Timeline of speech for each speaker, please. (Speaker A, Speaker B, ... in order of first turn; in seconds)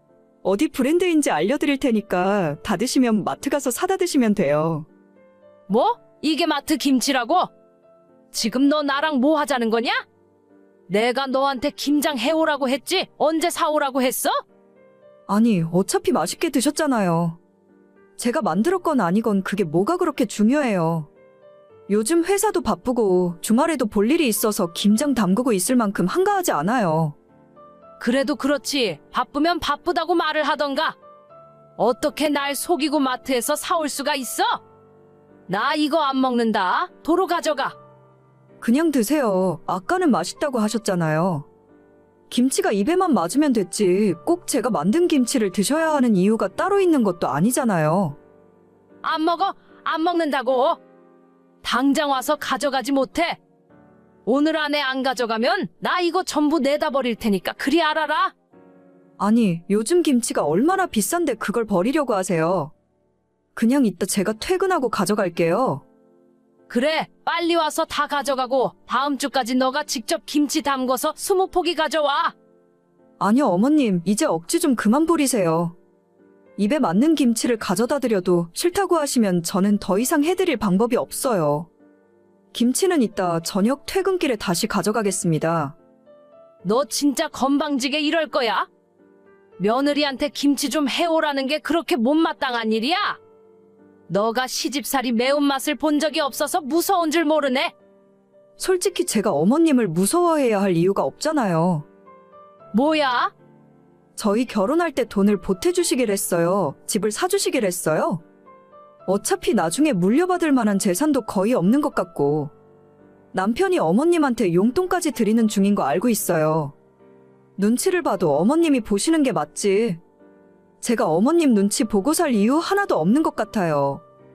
Speaker A: 0.4-4.9, 15.3-17.4, 18.2-21.1, 21.9-27.1, 38.6-41.5, 42.3-48.2, 59.2-62.7, 63.5-65.8, 73.2-75.8, 76.6-81.7, 82.5-85.8, 98.6-101.9, 104.2-108.2, 109.0-112.5, 113.3-116.8, 117.6-120.0, 120.8-124.0
Speaker B: 5.7-7.5, 8.3-10.0, 10.9-14.4, 28.0-31.0, 31.8-34.6, 35.5-37.8, 49.0-50.8, 51.6-53.4, 54.2-58.3, 66.7-72.3, 86.6-88.7, 89.6-93.2, 94.1-97.7, 102.7-103.3